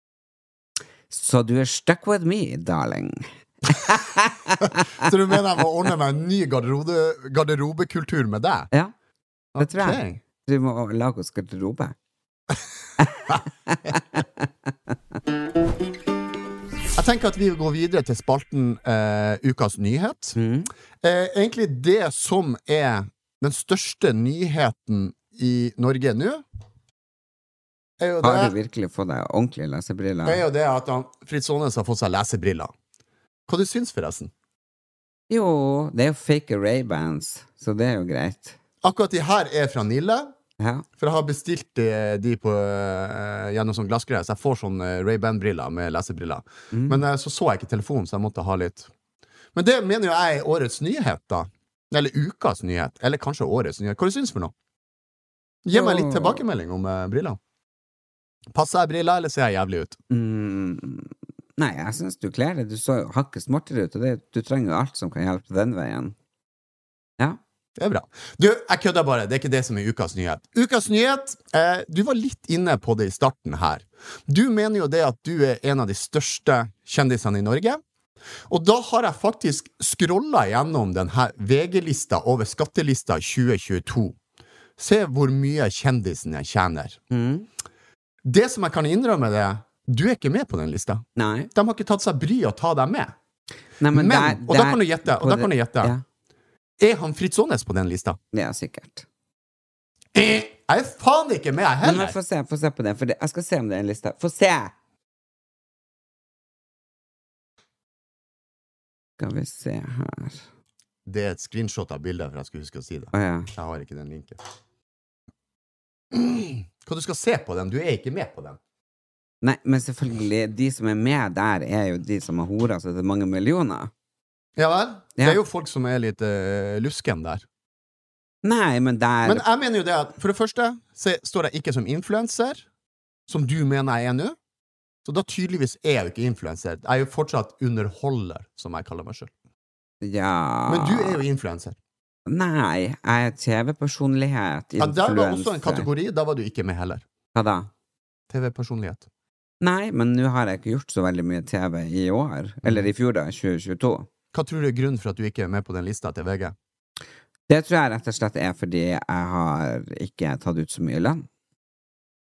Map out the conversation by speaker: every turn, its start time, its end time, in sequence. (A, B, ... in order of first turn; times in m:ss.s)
0:01.1-0:05.0 A
0:05.0-0:08.7 B
0:09.5-0:10.2 B
0:09.6-0:11.9 A
0:13.0-0:14.4 A
0:17.0-0:20.4 B
0:20.4-0:20.7 A
0:21.0-0:26.4 B
0:28.0-0:28.5 B
0:28.2-0:30.4 A
0:30.2-0:32.7 B
0:33.5-0:34.3 B
0:35.3-0:38.6 A
0:38.8-0:40.3 B
0:40.6-0:40.8 A
0:41.0-0:48.9 B
0:46.7-0:47.0 A
0:49.5-0:54.5 B
0:55.6-0:57.4 B
0:55.7-0:56.4 A
0:58.5-1:00.0 B
1:00.1-1:06.1 A
1:07.8-1:17.8 B
1:18.5-1:24.2 B
1:24.8-1:27.0 B
1:27.1-1:27.5 A
1:28.2-1:31.0 B
1:31.2-1:31.5 A
1:31.5-1:33.1 B
1:33.8-1:36.0 A
1:33.9-1:35.9 B
1:36.8-1:38.2 B
1:38.3-1:39.0 A
1:40.1-1:42.1 B
1:41.8-1:44.7 A
1:49.2-1:50.4 A
1:51.0-1:54.4 B
1:53.1-1:53.5 A
1:56.1-1:58.6 B
1:59.4-2:03.9 A
2:04.6-2:07.4 B
2:08.4-2:09.4 A
2:09.2-2:12.6 B
2:13.3-2:14.4 B
2:15.0-2:19.3 B
2:20.0-2:21.2 A
2:20.7-2:21.8 B
2:22.3-2:25.9 A
2:24.8-2:27.0 B
2:27.3-2:27.7 A
2:28.3-2:29.0 B
2:29.6-2:34.1 A
2:34.3-2:36.5 B
2:37.5-2:41.2 A